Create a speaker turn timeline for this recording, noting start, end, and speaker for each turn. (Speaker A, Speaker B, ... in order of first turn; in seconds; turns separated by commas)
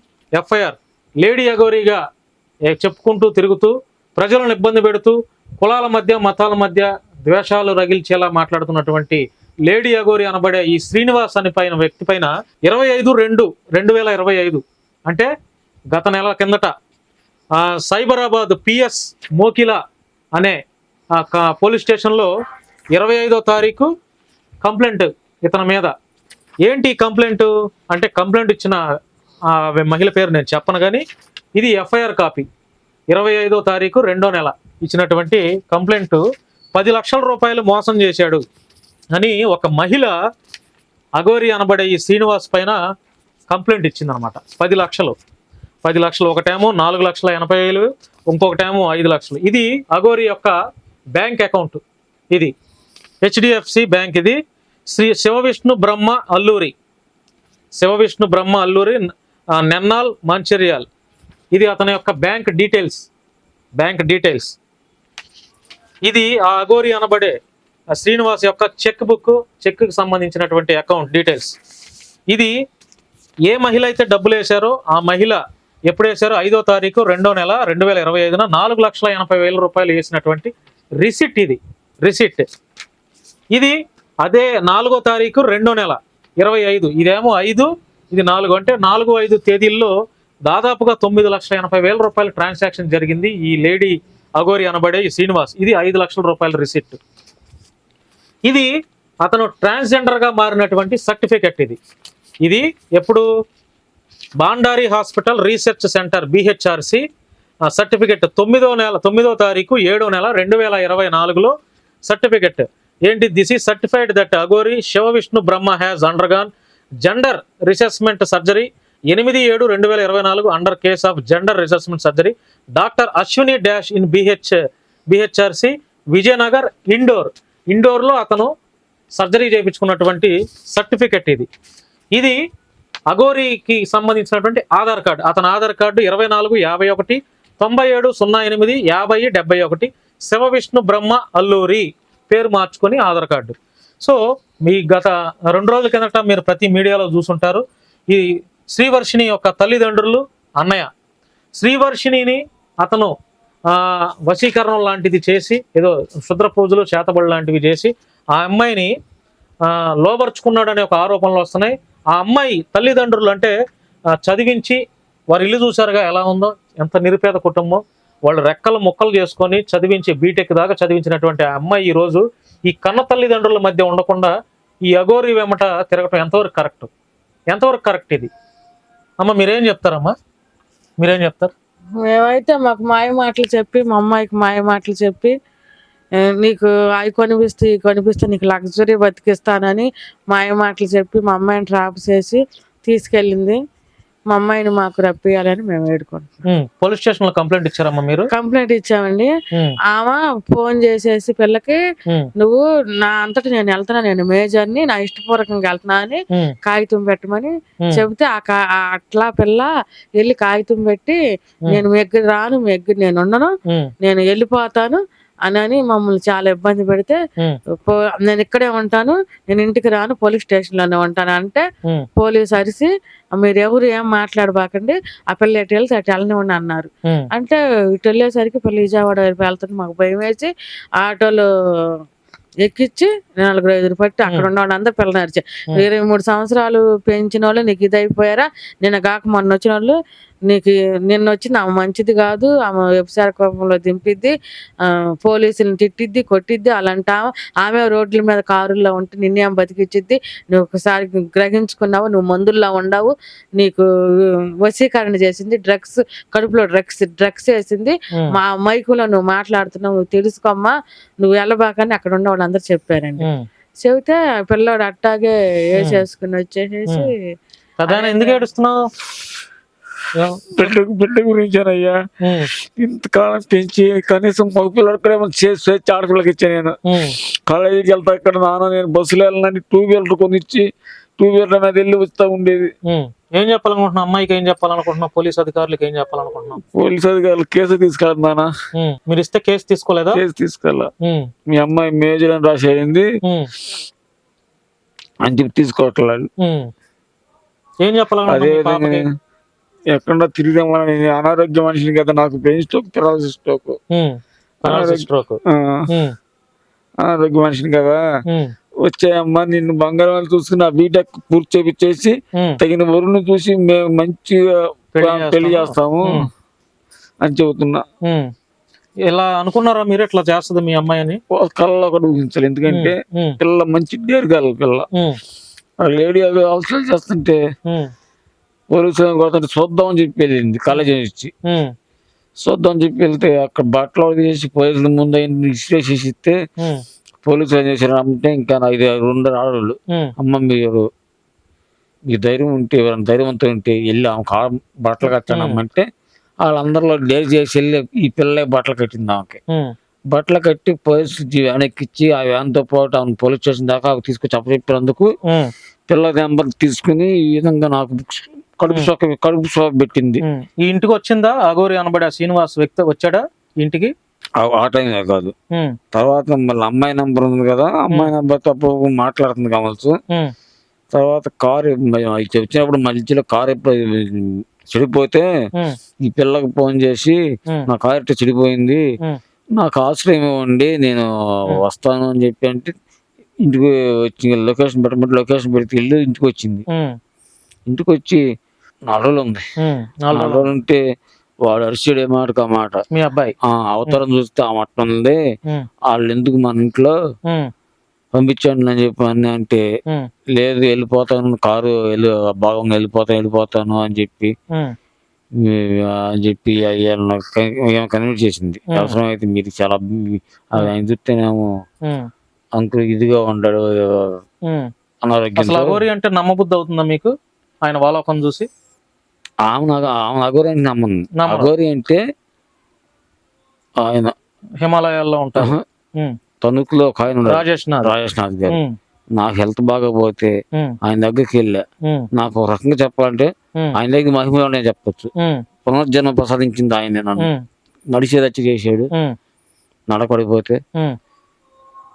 Speaker A: 0.3-2.0, Speaker A: 2.7-15.3, Speaker A: 15.9-16.7, Speaker A: 17.6-19.8, Speaker A: 21.1-22.3, Speaker A: 22.9-23.9, Speaker A: 24.6-25.9, Speaker A: 26.6-28.8, Speaker A: 29.5-31.0, Speaker A: 31.6-32.5, Speaker A: 33.1-36.2, Speaker A: 36.7-38.4, Speaker A: 39.1-40.1, Speaker A: 41.1-42.8, Speaker A: 43.5-45.1, Speaker A: 45.8-50.5, Speaker A: 51.1-51.8, Speaker A: 53.2-54.4, Speaker A: 54.9-56.7, Speaker A: 57.8-59.0, Speaker A: 59.6-60.9, Speaker A: 61.5-63.1, Speaker A: 63.8-64.5, Speaker A: 66.0-67.3, Speaker A: 67.9-71.5, Speaker A: 73.5-82.5, Speaker A: 83.5-89.9, Speaker A: 90.4-97.0, Speaker A: 99.2-101.8, Speaker A: 102.4-103.2, Speaker A: 104.4-107.0, Speaker A: 107.7-111.5, Speaker A: 112.0-116.5, Speaker A: 117.0-128.5, Speaker A: 129.2-131.5, Speaker A: 133.1-150.9, Speaker A: 151.6-153.1, Speaker A: 153.7-158.9, Speaker A: 159.6-163.5, Speaker A: 164.2-164.8, Speaker A: 165.3-174.3, Speaker A: 174.9-176.9, Speaker A: 177.5-178.3, Speaker A: 179.2-180.1, Speaker A: 181.0-181.5, Speaker B: 182.1-185.3, Speaker B: 186.2-193.6, Speaker B: 194.3-196.3, Speaker A: 196.5-198.3, Speaker B: 198.3-199.3, Speaker A: 199.5-199.8, Speaker B: 199.9-201.8, Speaker B: 202.4-211.2, Speaker B: 211.7-213.5, Speaker B: 214.0-217.2, Speaker B: 217.8-221.6, Speaker B: 222.2-231.4, Speaker B: 232.6-239.9, Speaker B: 240.5-244.3, Speaker B: 244.8-263.3, Speaker B: 263.8-267.1, Speaker A: 267.8-268.8, Speaker B: 267.9-268.4, Speaker A: 270.1-270.7, Speaker C: 270.6-272.0, Speaker A: 272.2-272.5, Speaker C: 272.6-280.7, Speaker A: 276.9-277.1, Speaker C: 281.2-282.7, Speaker A: 282.9-286.6, Speaker C: 286.6-288.5, Speaker A: 288.7-290.2, Speaker C: 290.1-290.9, Speaker A: 291.0-291.3, Speaker C: 291.5-293.1, Speaker A: 293.2-293.5, Speaker C: 295.2-296.3, Speaker A: 296.4-296.7, Speaker A: 297.8-299.1, Speaker C: 298.3-299.1, Speaker C: 299.9-303.8, Speaker A: 303.9-306.1, Speaker C: 304.6-305.9, Speaker C: 307.0-308.0, Speaker C: 308.8-316.2, Speaker A: 312.3-312.6, Speaker A: 314.9-316.3, Speaker C: 317.2-317.8, Speaker A: 318.0-318.3, Speaker A: 319.1-321.2, Speaker C: 321.3-324.9, Speaker A: 322.7-323.4, Speaker C: 325.8-327.4, Speaker C: 328.7-331.3, Speaker A: 331.4-331.7, Speaker C: 332.4-336.4, Speaker C: 337.2-340.8, Speaker C: 342.1-345.9, Speaker A: 345.3-345.6, Speaker C: 346.4-349.4, Speaker C: 350.1-355.1, Speaker A: 355.2-355.5, Speaker C: 355.9-360.2, Speaker A: 360.2-363.9, Speaker C: 364.4-365.3, Speaker C: 365.9-369.9, Speaker C: 370.9-375.2, Speaker C: 376.0-377.2, Speaker C: 377.7-378.8, Speaker C: 379.6-382.7, Speaker C: 383.4-386.6, Speaker C: 387.7-388.2, Speaker C: 388.9-389.4, Speaker A: 389.6-390.5, Speaker C: 390.1-390.8, Speaker C: 391.4-392.8, Speaker A: 392.9-393.3, Speaker C: 393.4-395.2, Speaker C: 395.9-396.9, Speaker C: 398.1-399.6, Speaker C: 400.3-404.3, Speaker C: 405.4-411.5, Speaker A: 408.7-409.0, Speaker C: 412.6-414.2, Speaker C: 415.0-415.8, Speaker A: 415.4-417.1, Speaker A: 417.6-418.5, Speaker C: 419.5-422.0, Speaker A: 421.2-421.5, Speaker C: 423.8-424.1, Speaker A: 424.6-426.2, Speaker C: 425.4-425.6, Speaker C: 426.4-428.6, Speaker A: 427.3-427.9, Speaker A: 428.5-428.7, Speaker C: 429.1-431.6, Speaker C: 432.1-435.1, Speaker A: 435.2-435.4, Speaker C: 435.6-437.3, Speaker C: 437.9-438.9, Speaker C: 439.9-440.6